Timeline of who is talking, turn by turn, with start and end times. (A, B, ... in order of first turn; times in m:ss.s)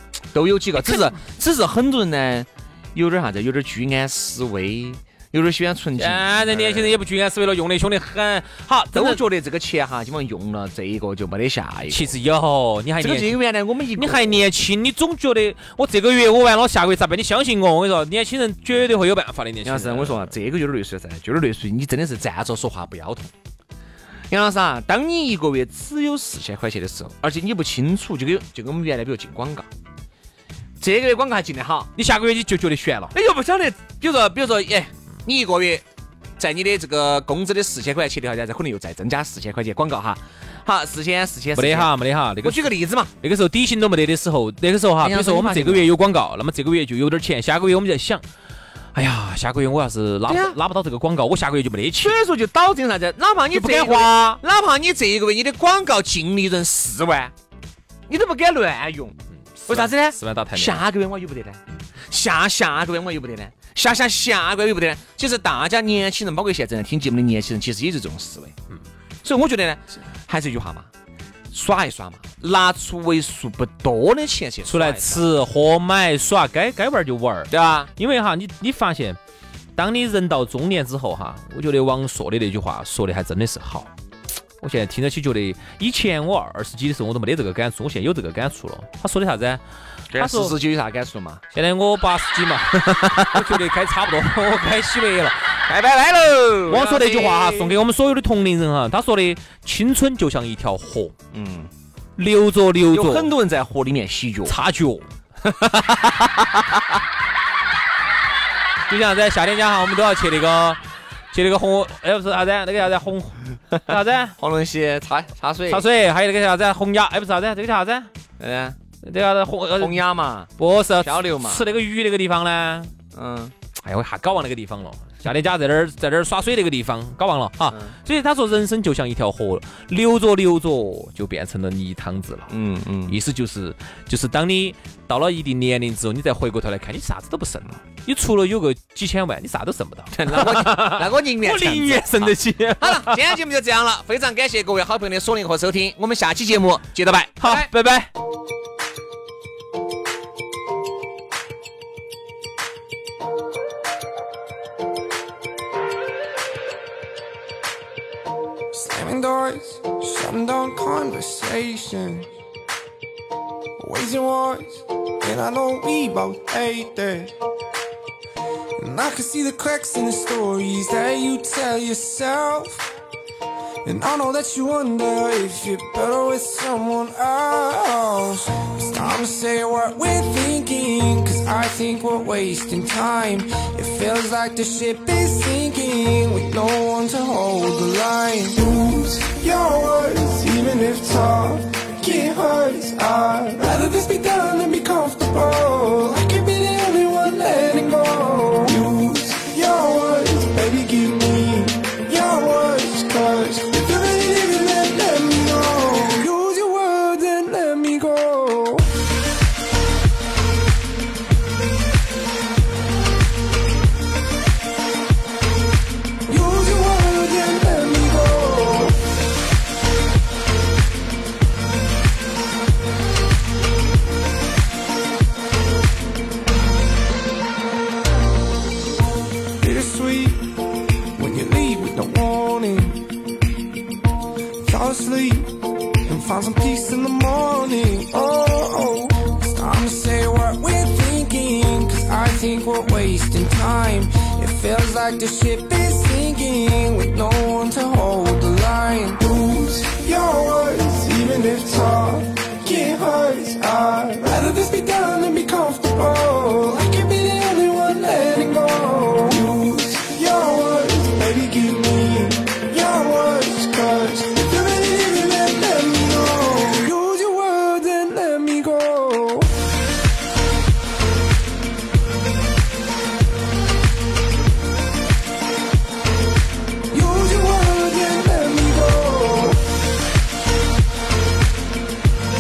0:00.3-0:07.0 A
0:00.8-0:01.2 B
0:06.0-0:09.2 B
0:08.9-0:12.2 A
0:11.9-0:13.4 B
0:13.0-0:14.5 A
0:14.0-0:20.3 B
0:19.6-0:23.3 A
0:24.3-0:29.7 A
0:30.8-0:31.9 A
0:32.0-0:33.1 B
0:33.1-0:35.8 A
0:36.4-0:43.1 A
0:41.6-0:48.2 B
0:45.0-0:45.9 A
0:48.9-0:52.2 B
0:50.3-0:50.6 A
0:52.0-0:57.3 A
0:53.5-0:54.4 B
0:58.1-1:08.6 A
0:59.6-1:00.9 B
1:09.2-1:10.9 A
1:11.5-1:15.3 A
1:14.7-1:19.2 B
1:17.5-1:17.9 A
1:19.8-1:23.9 B
1:24.6-1:29.6 B
1:30.1-1:31.4 A
1:30.2-1:30.6 B
1:31.5-1:35.5 B
1:33.0-1:33.6 A
1:35.7-1:37.8 A
1:36.7-1:41.2 B
1:41.3-1:41.7 A
1:42.2-1:43.3 B
1:42.9-1:44.6 A
1:44.5-1:45.1 B
1:45.4-1:46.8 A
1:48.9-1:50.8 B
1:51.3-1:54.4 B
1:53.8-1:55.8 A
1:55.7-1:58.1 B
1:58.4-1:58.8 A
1:59.0-2:00.0 B
1:59.8-2:01.6 A
2:00.6-2:02.9 B
2:03.1-2:03.5 A
2:03.8-2:12.5 B
2:12.5-2:13.2 A
2:13.1-2:23.4 B
2:20.1-2:27.7 A
2:27.4-2:28.1 B
2:38.7-2:42.3 C
2:43.8-2:47.3 C
2:48.8-2:52.9 C
2:53.8-3:28.9 C
3:36.3-3:39.0 C
3:49.6-3:50.5 C
3:51.2-3:53.0 C
3:54.6-3:55.5 C
3:56.1-4:29.5 C
4:36.9-4:39.6 C